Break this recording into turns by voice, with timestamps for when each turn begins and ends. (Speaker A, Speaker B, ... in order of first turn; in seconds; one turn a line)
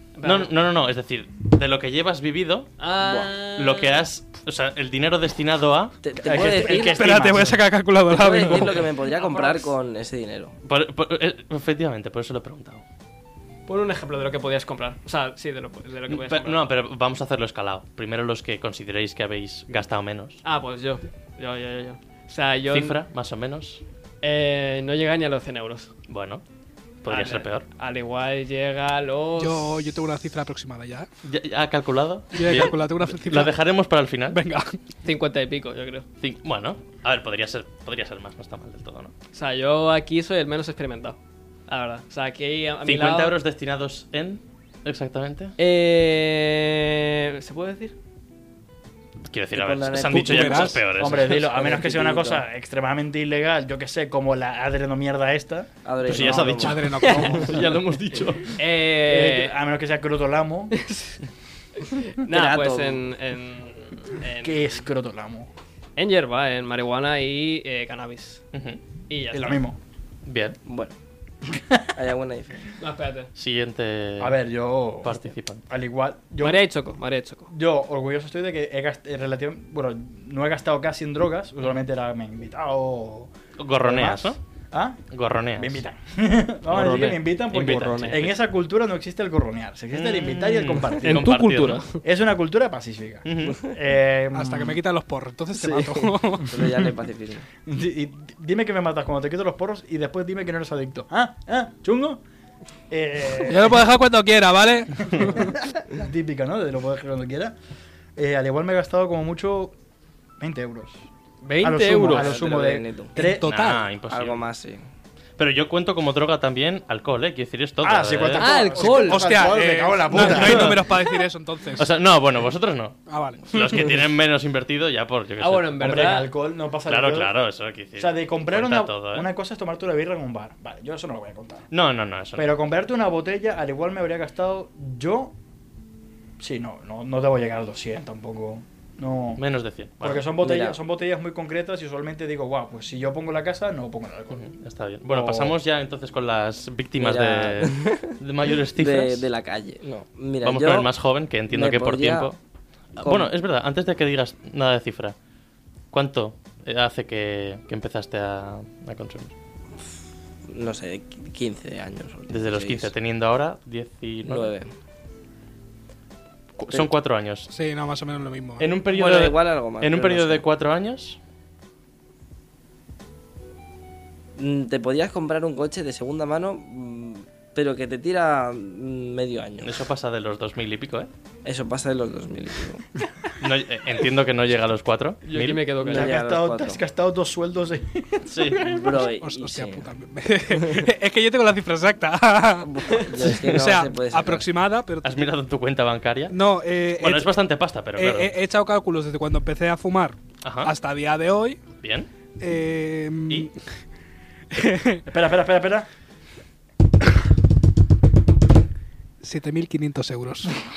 Speaker A: 0.1-0.5
Speaker B: 0.2-2.7
Speaker A: 2.8-4.1
Speaker C: 3.0-3.3
Speaker B: 3.5-5.9
Speaker C: 6.0-7.1
Speaker D: 6.2-7.6
Speaker E: 6.7-8.9
Speaker C: 8.1-10.6
Speaker A: 9.0-9.7
Speaker B: 10.6-12.8
Speaker A: 13.7-16.6
Speaker B: 16.1-20.4
Speaker A: 20.4-23.0
Speaker B: 22.6-23.8
Speaker A: 24.2-25.9
Speaker B: 26.1-26.4
Speaker B: 27.0-27.7
Speaker A: 27.1-29.8
Speaker E: 29.4-31.1
Speaker B: 31.2-34.4
Speaker E: 32.3-33.5
Speaker E: 34.3-34.8
Speaker A: 35.0-36.0
Speaker B: 36.2-39.1
Speaker A: 39.3-41.1
Speaker A: 41.7-43.4
Speaker B: 42.8-45.5
Speaker A: 45.6-47.9
Speaker B: 49.2-51.6
Speaker C: 49.5-50.8
Speaker E: 50.1-50.8
Speaker D: 50.9-57.7
Speaker C: 51.5-52.4
Speaker C: 55.8-56.8
Speaker B: 56.0-58.6
Speaker E: 56.6-57.6
Speaker A: 57.0-57.3
Speaker A: 58.6-59.6
Speaker D: 59.0-60.9
Speaker A: 60.8-61.2
Speaker A: 61.8-64.8
Speaker C: 62.3-63.0
Speaker D: 64.4-65.5
Speaker A: 66.0-68.4
Speaker B: 68.5-68.8
Speaker A: 69.1-69.6
Speaker D: 69.3-69.8
Speaker B: 70.2-70.6
Speaker C: 70.6-70.9
Speaker D: 71.5-71.8
Speaker C: 71.9-72.7
Speaker A: 72.8-73.3
Speaker B: 73.3-74.4
Speaker D: 74.2-76.6
Speaker B: 75.0-75.7
Speaker A: 76.4-77.5
Speaker D: 77.5-85.0
Speaker B: 83.6-84.4
Speaker B: 85.1-85.8
Speaker D: 85.5-91.3
Speaker B: 86.7-88.4
Speaker A: 86.8-87.1
Speaker B: 89.9-92.0
Speaker A: 91.0-92.0
Speaker D: 91.9-94.8
Speaker B: 93.2-93.6
Speaker E: 94.3-96.8
Speaker C: 95.6-97.5
Speaker D: 97.6-102.2
Speaker D: 102.9-103.8
Speaker E: 103.4-105.5
Speaker D: 105.0-107.5
Speaker D: 108.2-109.7
Speaker D: 110.4-111.0
Speaker A: 111.5-112.3
Speaker D: 111.6-113.5
Speaker C: 112.0-113.2
Speaker E: 113.1-113.9
Speaker B: 113.4-114.4
Speaker C: 114.1-114.8
Speaker B: 115.4-118.6
Speaker D: 117.8-120.9
Speaker A: 118.3-119.5
Speaker E: 118.4-121.9
Speaker B: 120.2-120.9
Speaker B: 121.7-125.8
Speaker E: 123.1-123.9
Speaker A: 125.4-126.3
Speaker D: 125.7-127.4
Speaker B: 126.8-129.3
Speaker D: 128.0-131.7
Speaker B: 131.7-132.5
Speaker D: 132.4-135.3
Speaker D: 136.4-139.4
Speaker B: 139.4-140.3
Speaker D: 140.0-145.6
Speaker C: 140.4-140.8
Speaker B: 144.3-149.3
Speaker C: 147.0-148.2
Speaker C: 148.7-150.9
Speaker B: 150.4-152.4
Speaker C: 151.5-152.3
Speaker C: 152.9-153.3
Speaker B: 153.0-155.2
Speaker B: 155.9-159.3
Speaker C: 160.5-162.9
Speaker B: 162.3-164.5
Speaker C: 164.2-164.7
Speaker B: 166.6-167.5
Speaker E: 167.5-168.7
Speaker B: 168.6-171.2
Speaker C: 168.9-170.4
Speaker C: 174.3-179.7
Speaker B: 179.6-181.1
Speaker C: 181.4-182.8
Speaker B: 183.4-185.7
Speaker A: 185.2-186.2
Speaker D: 185.8-189.1
Speaker C: 185.8-186.8
Speaker B: 188.3-188.6
Speaker C: 188.6-189.9
Speaker E: 188.9-195.3
Speaker C: 192.7-194.5
Speaker B: 195.0-196.4
Speaker E: 196.3-197.3
Speaker B: 197.0-198.3
Speaker E: 197.9-201.6
Speaker B: 200.4-200.7
Speaker B: 201.8-202.1
Speaker E: 202.4-203.5
Speaker E: 204.5-205.1
Speaker D: 205.1-205.9
Speaker E: 209.2-210.6